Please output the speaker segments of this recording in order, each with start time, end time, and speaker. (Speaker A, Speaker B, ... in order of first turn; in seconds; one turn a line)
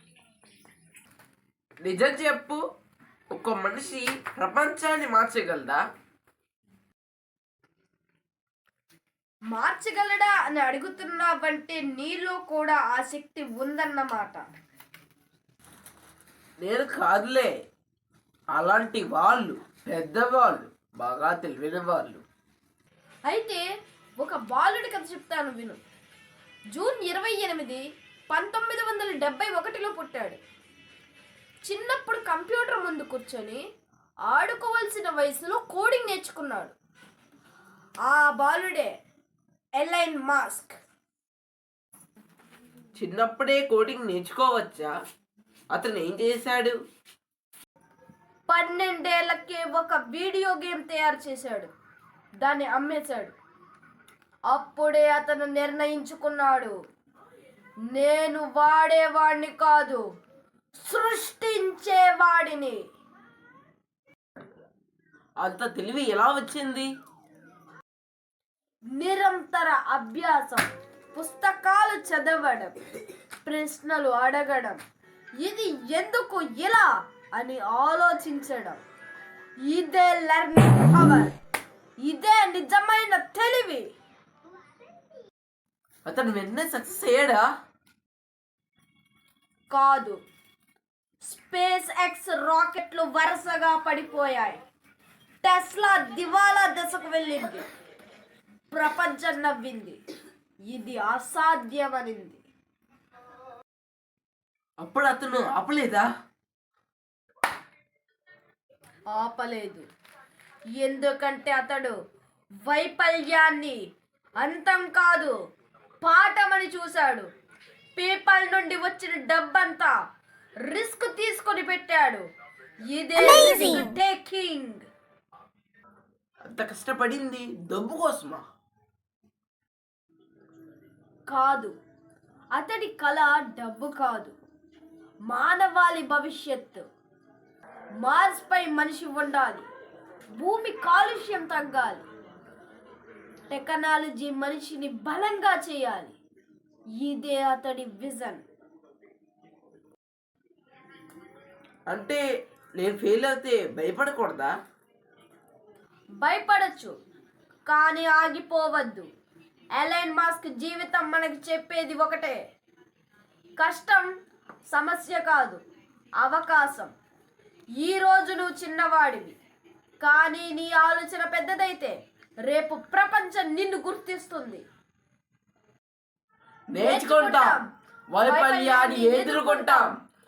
Speaker A: 1.8-2.6
Speaker A: 3.3-5.8
Speaker B: 9.5-14.5
Speaker A: 16.6-17.5
Speaker A: 18.5-22.2
Speaker B: 23.3-23.6
Speaker B: 24.2-25.8
Speaker B: 26.7-30.4
Speaker B: 31.7-33.6
Speaker B: 34.3-36.7
Speaker B: 38.0-38.9
Speaker B: 39.8-40.8
Speaker A: 43.0-44.9
Speaker A: 45.7-46.8
Speaker B: 48.5-51.7
Speaker B: 52.4-53.3
Speaker B: 54.5-56.7
Speaker B: 57.9-60.0
Speaker B: 60.8-62.8
Speaker A: 65.4-66.9
Speaker B: 69.0-72.7
Speaker B: 73.4-74.8
Speaker B: 75.4-78.8
Speaker B: 79.7-81.3
Speaker B: 82.0-83.9
Speaker A: 86.0-87.5
Speaker B: 89.7-90.2
Speaker B: 91.2-94.6
Speaker B: 95.4-97.7
Speaker B: 98.7-100.0
Speaker B: 100.7-102.4
Speaker A: 104.8-106.1
Speaker B: 109.1-109.8
Speaker B: 110.8-111.9
Speaker B: 112.6-113.8
Speaker B: 114.4-115.3
Speaker B: 116.0-117.3
Speaker B: 118.0-119.9
Speaker B: 120.7-122.2
Speaker B: 122.9-124.8
Speaker A: 126.4-128.4
Speaker B: 131.3-131.7
Speaker B: 132.5-134.3
Speaker B: 135.3-136.8
Speaker B: 138.0-139.7
Speaker B: 140.4-142.1
Speaker B: 143.5-146.1
Speaker B: 147.0-148.4
Speaker A: 151.9-152.2
Speaker A: 152.8-154.5
Speaker B: 156.2-156.9
Speaker B: 157.7-159.1
Speaker B: 159.8-162.4
Speaker B: 163.6-164.1
Speaker B: 164.7-165.6
Speaker B: 166.2-166.9
Speaker B: 167.8-169.4
Speaker B: 170.0-171.9
Speaker B: 172.5-174.6
Speaker A: 176.7-177.6
Speaker B: 176.8-177.7
Speaker A: 178.1-179.9
Speaker B: 178.2-179.9